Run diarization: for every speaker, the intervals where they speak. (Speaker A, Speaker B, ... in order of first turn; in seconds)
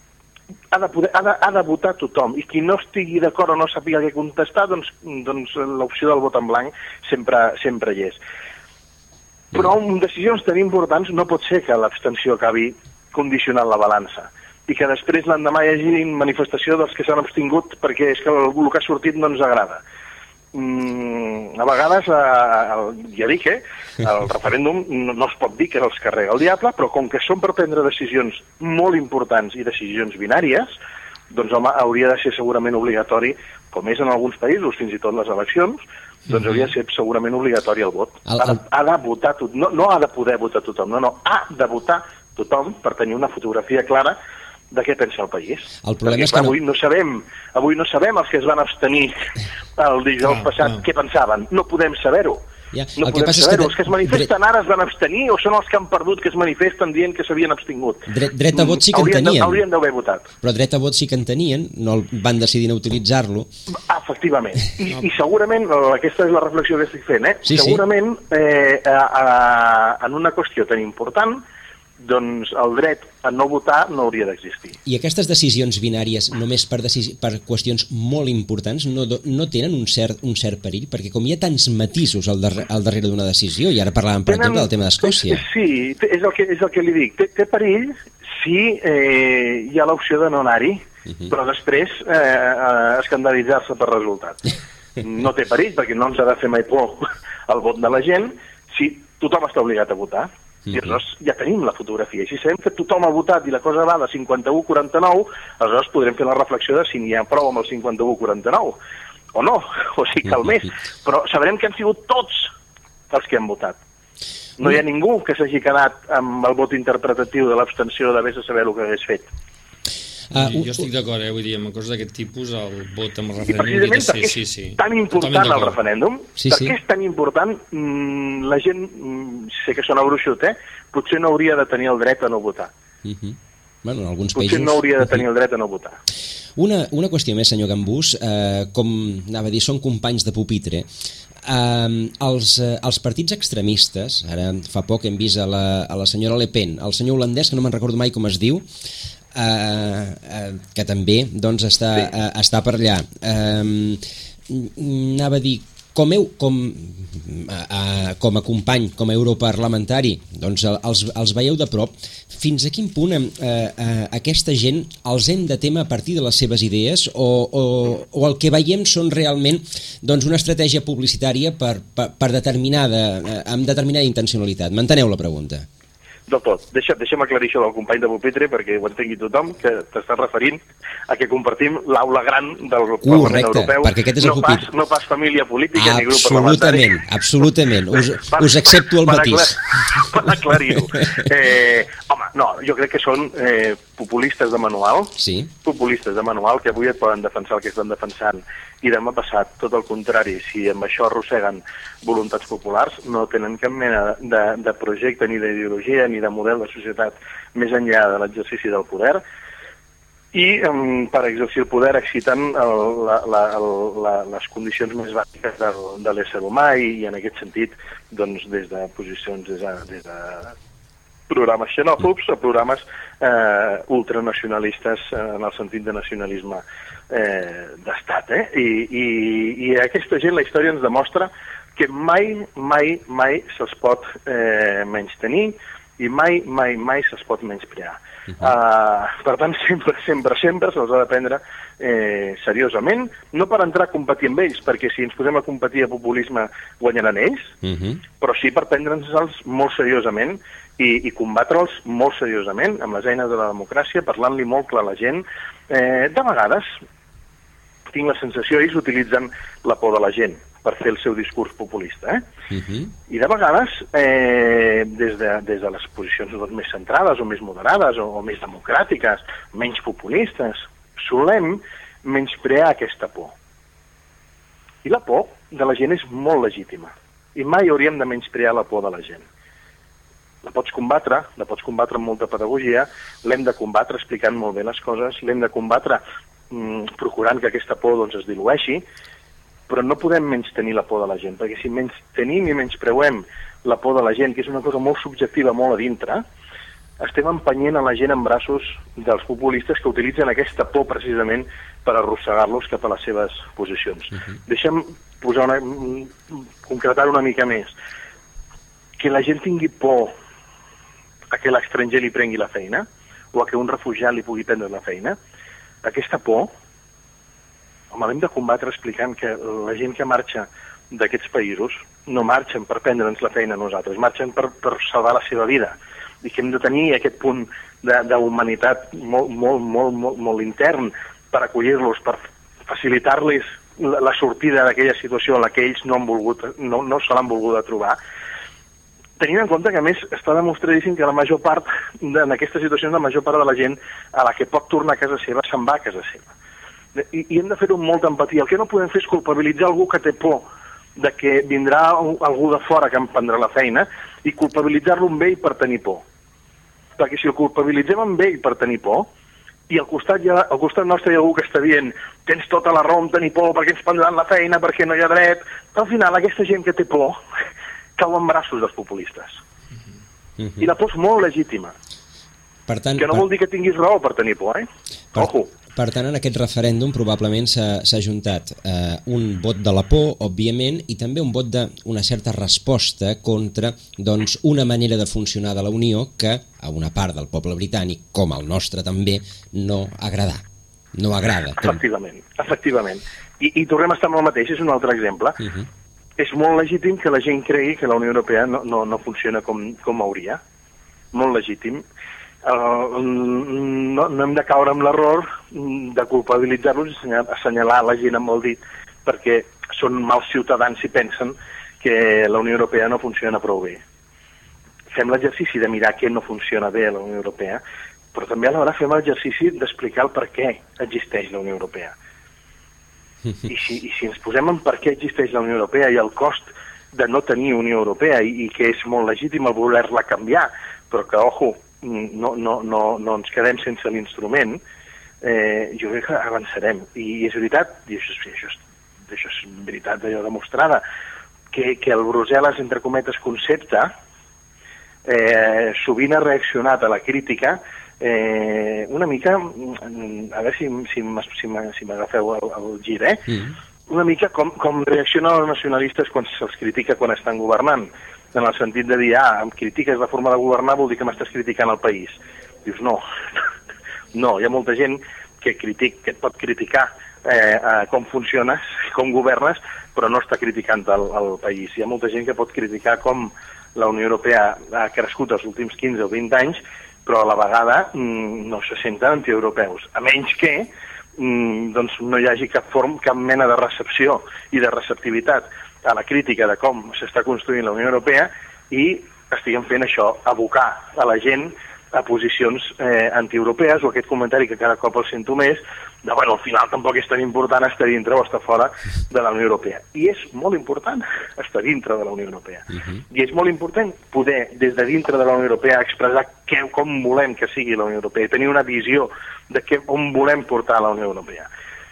Speaker A: 0.7-8.2, 9.5-19.8, 20.5-30.7, 31.3-44.2, 44.7-52.4, 53.0-60.3, 63.9-71.4, 72.0-74.8, 84.3-94.5, 95.0-108.8, 109.3-112.5, 113.1-113.8, 114.6-119.3, 123.4-132.7, 134.3-136.0, 176.3-186.9, 188.3-209.2, 210.3-220.5, 221.3-247.5, 248.2-256.7, 257.9-262.2, 263.1-273.3, 274.8-279.2, 280.4-288.8, 289.7-296.2, 297.0-307.7, 309.0-310.1, 311.3-315.2, 315.8-316.5, 317.9-338.0, 339.2-346.3, 347.0-350.4, 351.0-356.0, 357.0-359.1, 359.7-367.2, 368.0-369.4, 370.6-371.8, 373.0-375.5, 391.6-395.4, 396.2-400.4, 401.1-401.8, 402.4-413.8, 414.9-417.6, 418.1-421.9, 423.4-434.6, 435.2-440.8, 441.5-443.9, 445.1-453.3, 453.9-463.0, 464.1-511.5
Speaker B: 38.3-38.5, 45.8-46.6, 52.7-54.3, 58.1-59.6, 60.4-63.5, 67.5-67.8, 74.8-85.4, 120.3-120.8, 126.4-126.7, 133.0-134.8, 136.6-140.9, 141.4-148.6, 149.3-175.7, 183.1-184.7, 185.8-189.6, 195.2-195.5, 247.6-248.0, 262.5-262.9, 372.7-373.2, 375.1-391.8
Speaker C: 50.2-50.8, 120.4-125.8